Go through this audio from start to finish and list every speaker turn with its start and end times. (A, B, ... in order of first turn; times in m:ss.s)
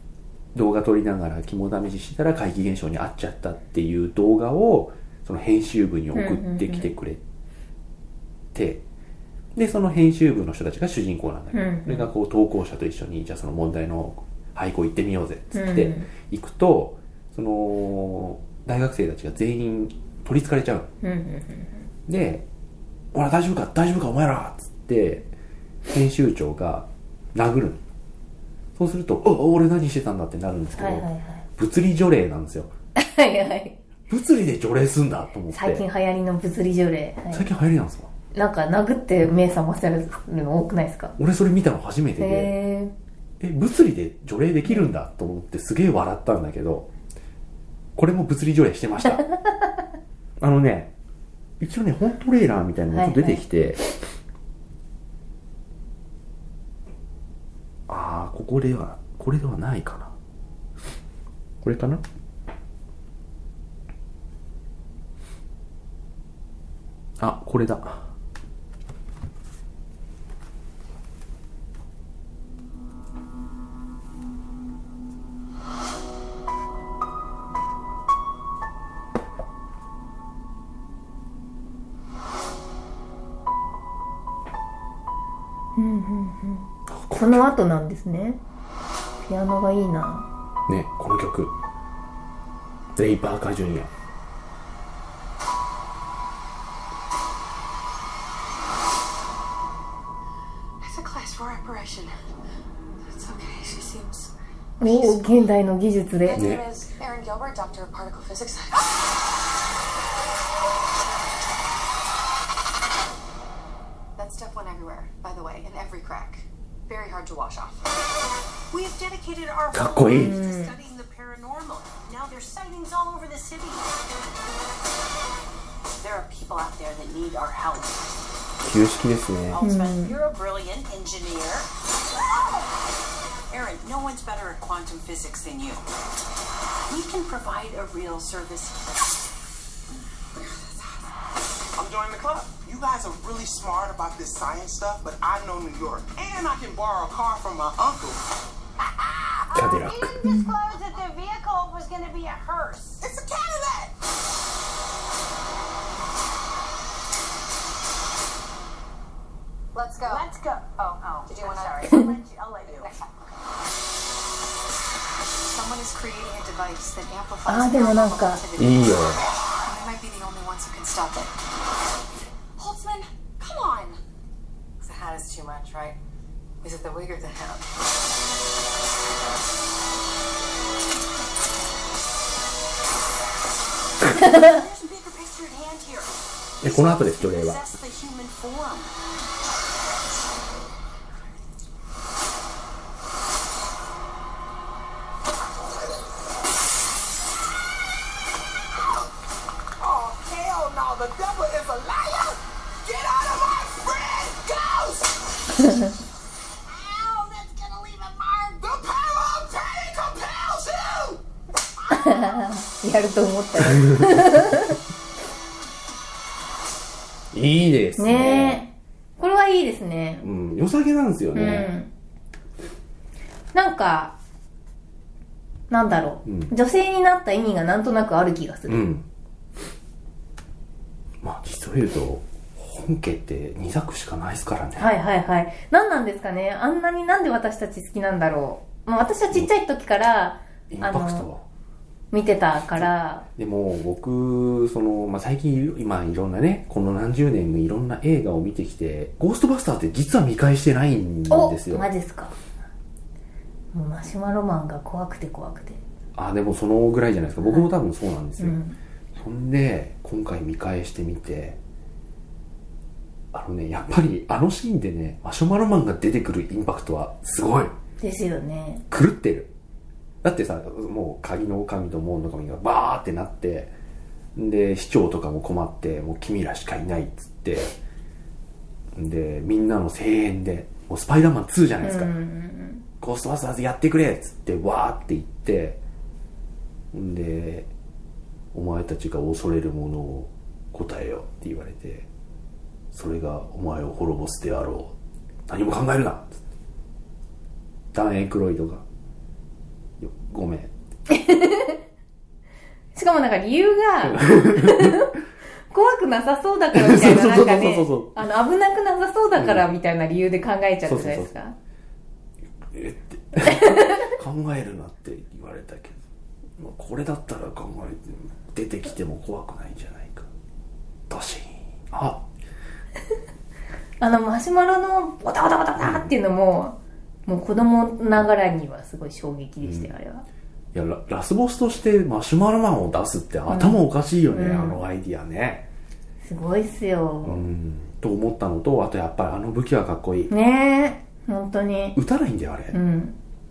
0:00.5-0:07.2 A
0:06.1-0:06.9 B
0:08.5-0:08.8 A
0:09.6-0:20.9 A
0:11.5-0:12.1 B
0:15.5-0:16.1 B
0:21.0-0:21.9 B
0:22.1-0:22.4 A
0:23.1-0:25.3 A
0:25.9-0:27.8 A
0:28.8-0:32.7 A
0:30.8-0:31.4 B
0:33.0-0:33.8 B
0:34.1-0:35.8 A
0:35.5-0:37.5 B
0:37.3-0:38.1 A
0:38.3-0:41.2 B
0:41.2-0:42.6 A
0:42.2-0:42.9 B
0:43.4-0:46.9 A
0:48.0-0:49.2 A
0:50.4-0:50.9 A
0:51.6-0:53.8 A
0:52.9-0:53.4 B
0:57.9-1:00.1 A
1:01.6-1:02.0 A
1:07.2-1:08.1 A
1:25.8-1:28.4 B
1:26.9-1:27.4 A
1:29.2-1:30.3 B
1:30.7-1:31.5 A
1:33.0-1:33.9 A
1:40.8-1:42.1 C
1:43.1-1:44.3 C
1:44.8-1:46.5 B
1:44.9-1:45.4 C
1:46.2-1:48.9 C
1:46.4-1:46.6 A
1:54.2-1:57.8 C
1:58.7-2:03.9 D
1:59.7-2:00.4 A
2:00.1-2:00.8 B
2:06.0-2:08.0 D
2:08.6-2:09.6 A
2:09.5-2:12.7 D
2:09.6-2:10.2 B
2:13.5-2:15.8 D
2:16.9-2:18.9 D
2:21.8-2:28.2 E
2:28.8-2:29.6 E
2:29.5-2:33.0 D
2:29.5-2:30.2 A
2:30.2-2:30.5 B
2:33.0-2:33.9 E
2:39.8-2:43.1 C
2:40.0-2:43.0 D
2:45.5-2:51.3 C
2:47.5-2:48.4 B
2:48.6-2:49.3 A
2:52.6-2:54.0 C
2:54.8-2:56.0 C
2:56.6-2:57.6 C
3:04.0-3:08.9 D
3:06.6-3:07.6 A
3:18.7-3:19.1 E
3:19.8-3:25.2 E
3:25.5-3:25.9 B
3:26.7-3:31.2 E
3:31.8-3:32.4 E
3:31.9-3:34.8 B
3:33.6-3:34.6 A
3:37.3-3:38.6 A
3:38.0-3:40.3 B
3:40.2-3:41.7 A
3:41.4-3:41.9 B
3:43.5-3:44.2 B
3:45.7-3:48.8 B
3:46.3-3:46.5 A
3:48.7-3:49.1 A
3:51.2-3:54.9 A
3:54.8-4:01.3 B
4:00.7-4:01.4 A
4:02.1-4:03.3 B
4:02.7-4:11.9 A
4:11.3-4:12.4 B
4:13.7-4:15.8 B
4:16.2-4:18.6 A
4:18.4-4:18.8 B
4:19.1-4:21.6 A
4:23.3-4:27.7 A
4:28.0-4:28.8 B
4:28.9-4:29.5 A
4:30.2-4:33.7 A
4:34.4-4:37.7 A
4:39.0-4:42.1 A
4:41.8-4:42.8 B
4:43.0-4:45.8 A
4:46.9-4:47.7 A
4:48.5-4:52.1 A
4:52.9-4:55.0 A
4:55.5-4:56.4 A
4:57.9-4:58.8 A
5:00.0-5:00.7 A
5:01.1-5:01.8 B
5:03.0-5:05.2 B
5:04.0-5:05.1 A
5:05.7-5:11.6 B
5:06.7-5:08.2 A
5:09.4-5:09.6 A
5:10.9-5:11.3 A
5:12.7-5:16.0 A
5:13.4-5:14.1 B
5:16.6-5:20.3 A
5:21.1-5:22.3 A
5:24.0-5:26.8 B
5:25.8-5:26.1 A
5:27.3-5:30.2 B
5:29.6-5:29.9 A
5:30.7-5:35.7 A
5:33.5-5:34.8 B
5:36.2-5:37.4 B
5:37.2-5:40.3 A
5:40.3-5:42.0 B
5:42.0-5:42.8 A
5:42.7-5:43.2 B